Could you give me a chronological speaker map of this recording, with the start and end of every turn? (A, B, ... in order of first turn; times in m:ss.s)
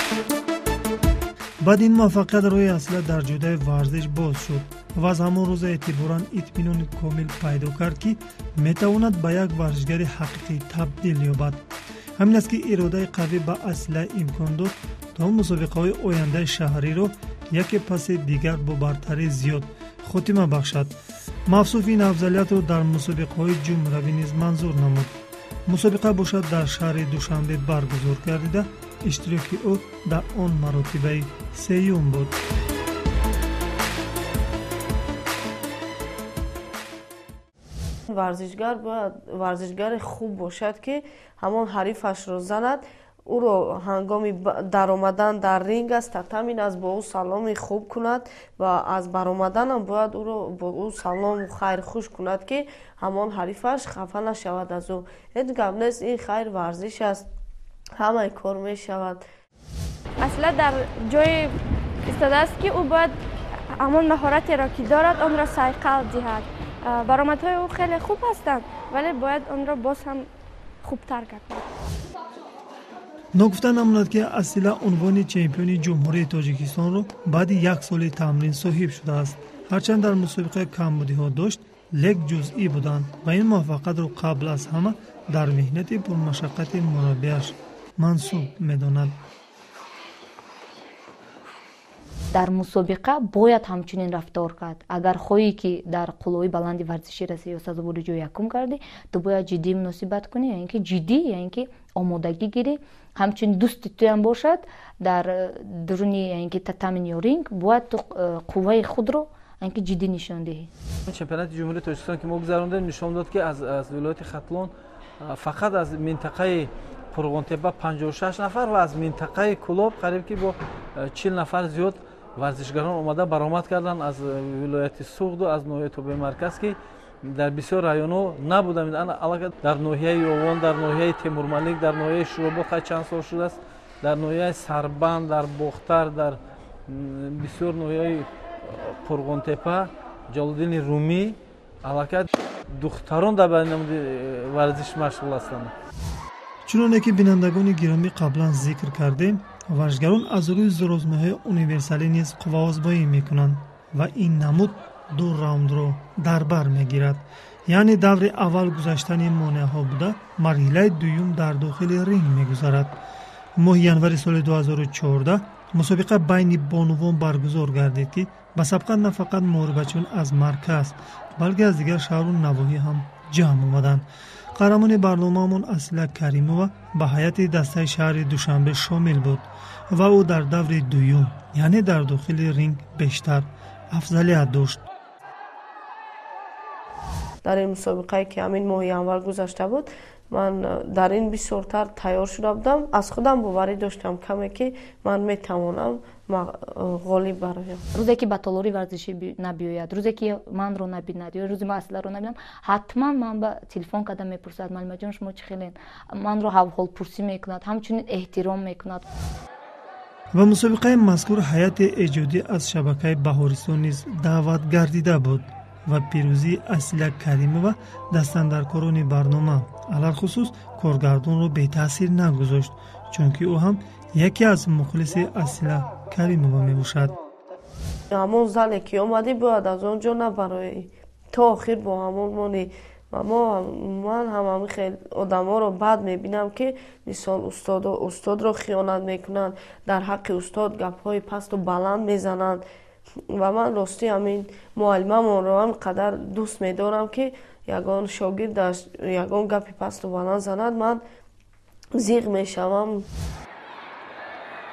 0:01.6-0:11.6 A
0:12.2-0:21.0 A
0:21.5-0:25.1 A
0:25.7-0:32.4 A
0:38.1-0:57.2 B
0:58.0-0:59.2 B
1:00.2-1:01.5 C
1:02.1-1:03.2 C
1:03.8-1:10.3 C
1:10.8-1:11.7 C
1:13.4-1:29.2 A
1:32.3-1:50.7 D
1:51.1-2:25.7 E
2:26.7-2:43.0 A
2:43.6-3:04.8 A
3:07.4-3:17.8 B
3:17.9-3:29.1 D
3:30.3-3:47.2 A
3:48.1-4:02.6 B
4:03.3-4:11.0 B
4:12.0-4:13.1 B